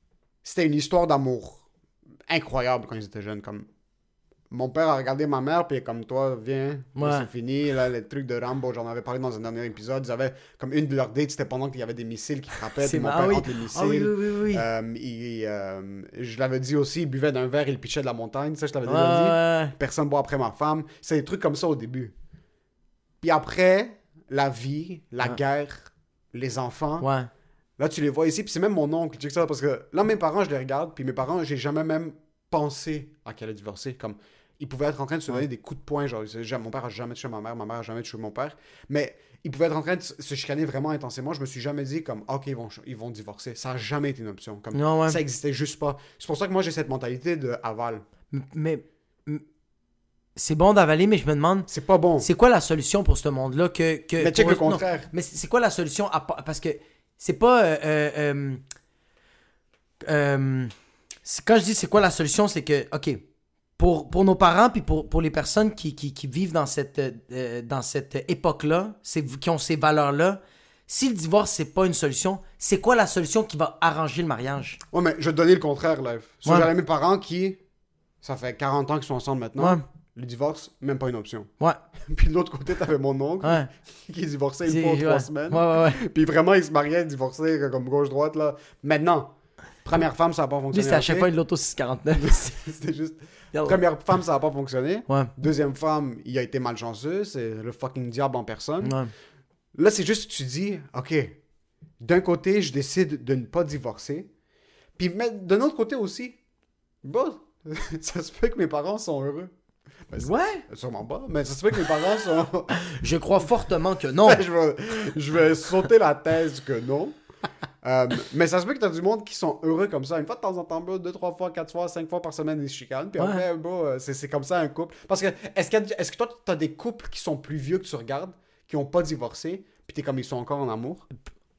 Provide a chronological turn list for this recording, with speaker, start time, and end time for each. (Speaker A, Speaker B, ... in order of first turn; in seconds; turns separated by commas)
Speaker A: 0.4-1.6, Speaker A: 2.3-3.7, Speaker A: 4.5-22.1, Speaker B: 7.0-7.3, Speaker B: 12.8-14.7, Speaker B: 18.9-19.8, Speaker A: 23.2-27.1, Speaker B: 27.0-27.3, Speaker A: 27.8-48.0, Speaker B: 44.7-45.2, Speaker B: 48.3-49.4, Speaker B: 50.4-51.7, Speaker A: 51.7-52.3, Speaker B: 52.2-58.6, Speaker A: 54.2-55.1, Speaker B: 60.0-60.7, Speaker B: 61.2-63.2, Speaker B: 63.8-74.8, Speaker A: 74.9-77.6, Speaker A: 78.2-81.5, Speaker B: 79.6-79.8, Speaker A: 82.0-89.3, Speaker B: 83.4-83.7, Speaker B: 84.7-86.0, Speaker A: 89.8-91.3, Speaker B: 90.7-92.6, Speaker A: 92.2-99.0, Speaker B: 93.5-93.8, Speaker B: 98.8-99.1, Speaker A: 99.7-101.4, Speaker A: 102.0-104.3, Speaker A: 105.0-106.4, Speaker A: 107.0-109.5, Speaker A: 110.1-112.8, Speaker B: 110.2-110.7, Speaker B: 112.8-114.4, Speaker A: 114.2-117.2, Speaker A: 117.8-131.1, Speaker B: 123.2-123.4